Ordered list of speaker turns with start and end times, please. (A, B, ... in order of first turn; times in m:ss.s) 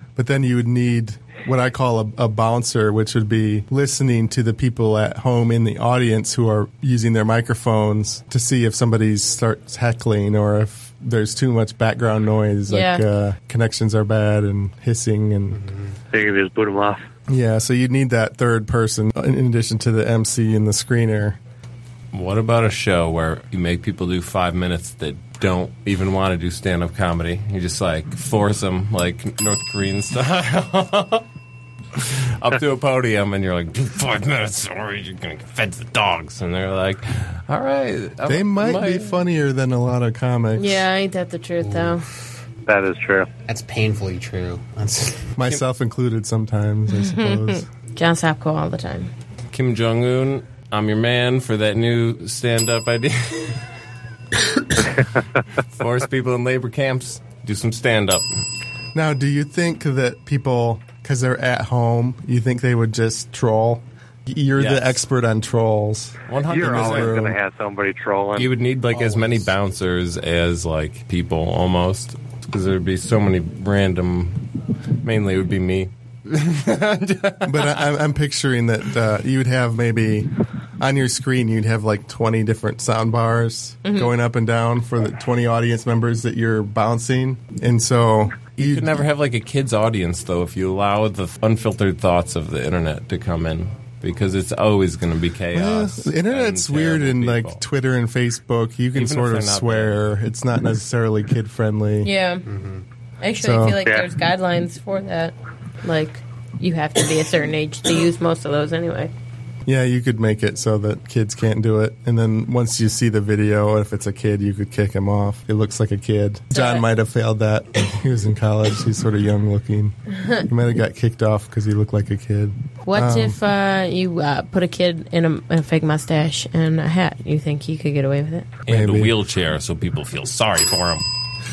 0:00.2-0:15.6 A
0:12.7-0:13.0 B
0:15.5-0:15.9 C
0:16.1-0:17.0 D
0:17.3-0:21.4 A
0:22.1-0:31.2 E
0:31.9-0:39.2 E
0:38.2-0:40.8 A
0:40.6-0:42.0 B
0:41.6-0:42.0 C
0:42.6-0:43.3 D
0:43.5-0:45.3 C
0:45.4-0:47.7 A
0:46.9-0:49.1 B
0:49.5-0:53.6 E
0:55.6-0:58.3 E
0:58.9-1:07.4 A
1:04.6-1:05.0 E
1:06.3-1:07.2 E
1:06.4-1:08.5 D
1:08.4-1:17.8 E
1:08.9-1:09.5 C
1:17.4-1:20.3 A
1:20.8-1:29.0 A
1:28.5-1:37.6 E
1:35.5-1:42.1 A
1:38.9-1:40.0 E
1:42.0-1:42.4 B
1:42.4-1:42.8 C
1:43.2-1:49.1 B
1:43.4-1:43.8 A
1:49.6-2:03.4 A
1:56.5-1:56.8 B
2:02.8-2:08.6 B
2:08.6-2:11.0 E
2:08.7-2:09.1 A